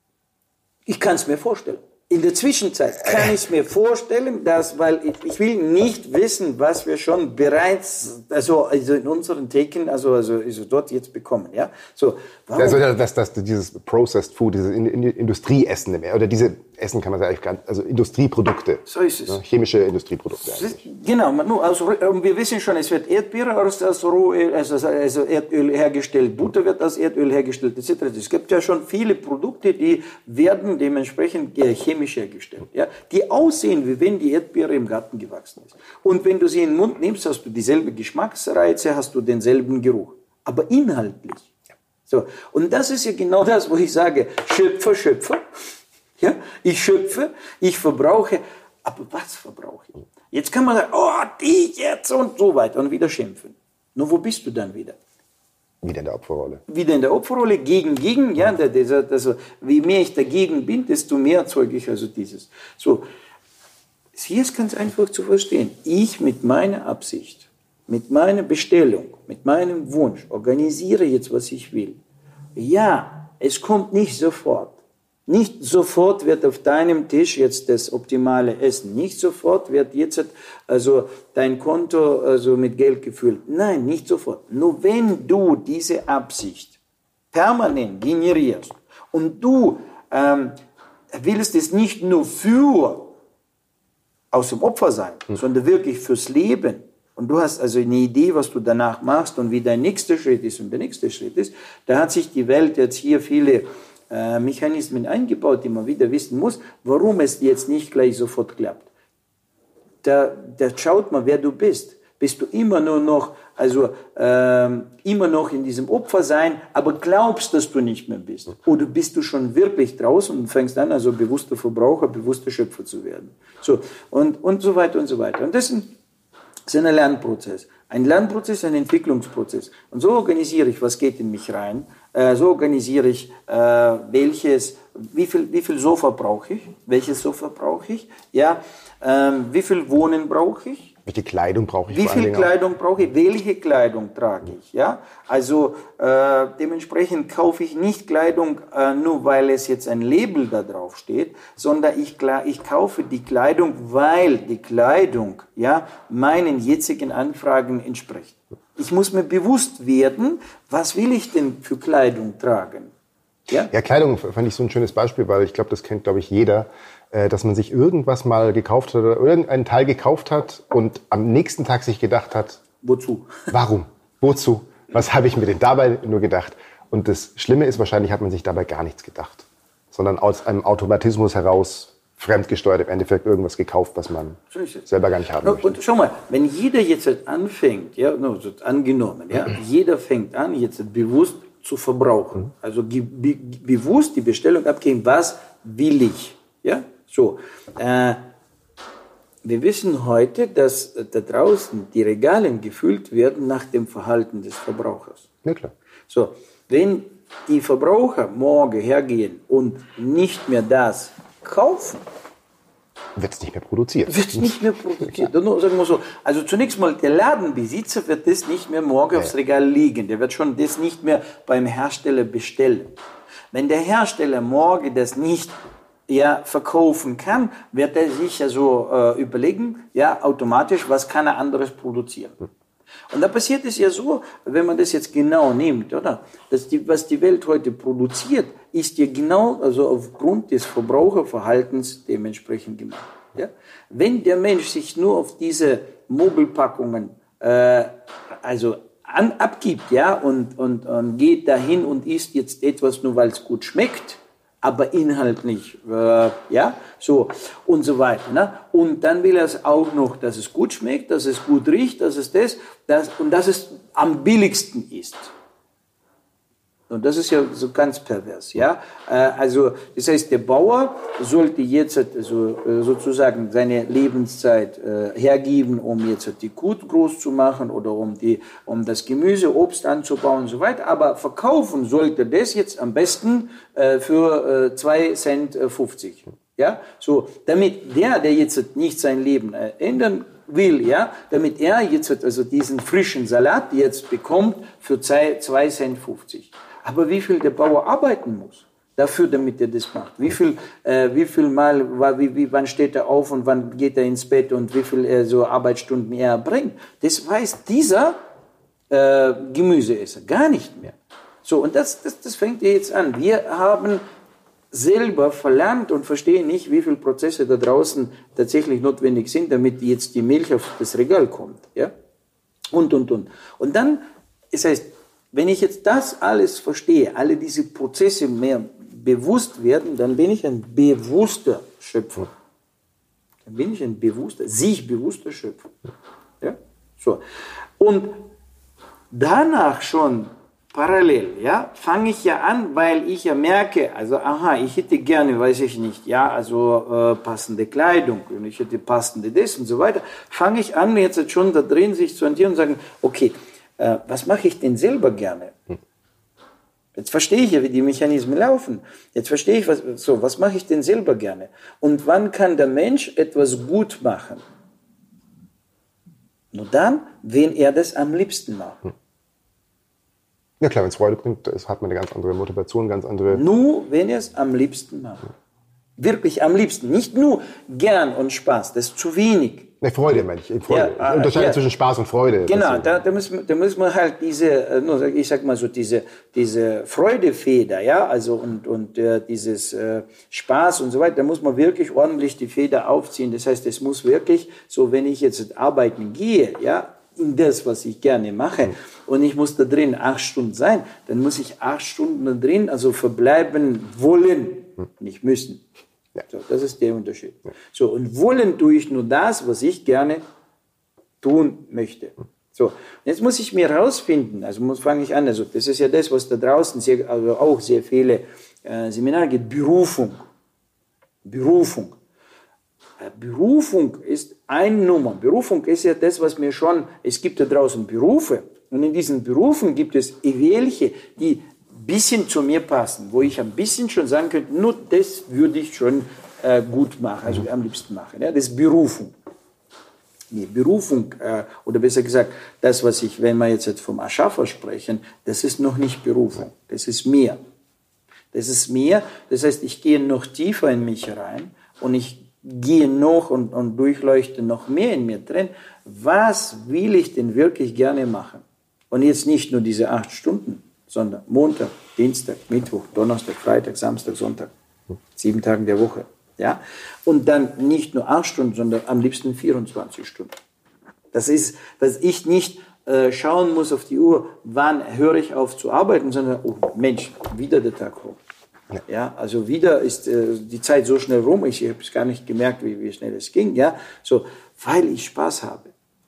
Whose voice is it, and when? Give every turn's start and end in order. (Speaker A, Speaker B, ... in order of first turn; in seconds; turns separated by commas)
Speaker A: 0.9-12.8, Speaker B: 12.6-20.8, Speaker A: 18.9-19.4, Speaker A: 20.4-41.5, Speaker A: 42.1-45.4, Speaker A: 46.2-55.0, Speaker B: 55.8-56.6, Speaker A: 56.7-63.1, Speaker A: 64.2-72.0, Speaker A: 72.6-86.8, Speaker A: 87.3-90.6, Speaker A: 91.1-93.1, Speaker A: 94.3-108.9, Speaker A: 110.0-125.9, Speaker A: 126.7-140.9, Speaker B: 141.1-142.5, Speaker A: 141.9-162.9, Speaker B: 163.7-172.6, Speaker A: 172.8-173.5, Speaker B: 173.5-185.8, Speaker A: 184.5-184.9, Speaker A: 185.4-198.2, Speaker A: 199.4-205.2, Speaker B: 205.4-205.7, Speaker A: 206.1-212.0, Speaker B: 213.2-214.6, Speaker A: 214.1-222.9, Speaker A: 223.5-225.6, Speaker A: 226.1-232.4, Speaker A: 233.1-265.3, Speaker A: 266.9-308.2, Speaker A: 308.9-314.0, Speaker A: 314.7-321.9, Speaker A: 322.7-332.3, Speaker A: 333.5-335.7, Speaker A: 336.4-337.2, Speaker A: 337.8-338.3, Speaker A: 339.1-355.6, Speaker A: 357.0-364.4, Speaker A: 366.5-368.9, Speaker B: 370.6-373.4, Speaker A: 373.3-375.2, Speaker A: 376.0-379.7, Speaker B: 379.8-382.9, Speaker A: 380.7-381.6, Speaker A: 382.5-405.6, Speaker A: 406.2-410.2, Speaker A: 411.2-420.2, Speaker A: 421.2-422.0, Speaker A: 423.0-439.1, Speaker A: 440.3-447.4, Speaker A: 448.3-464.5, Speaker A: 465.2-470.3, Speaker A: 471.1-478.2, Speaker A: 478.9-485.7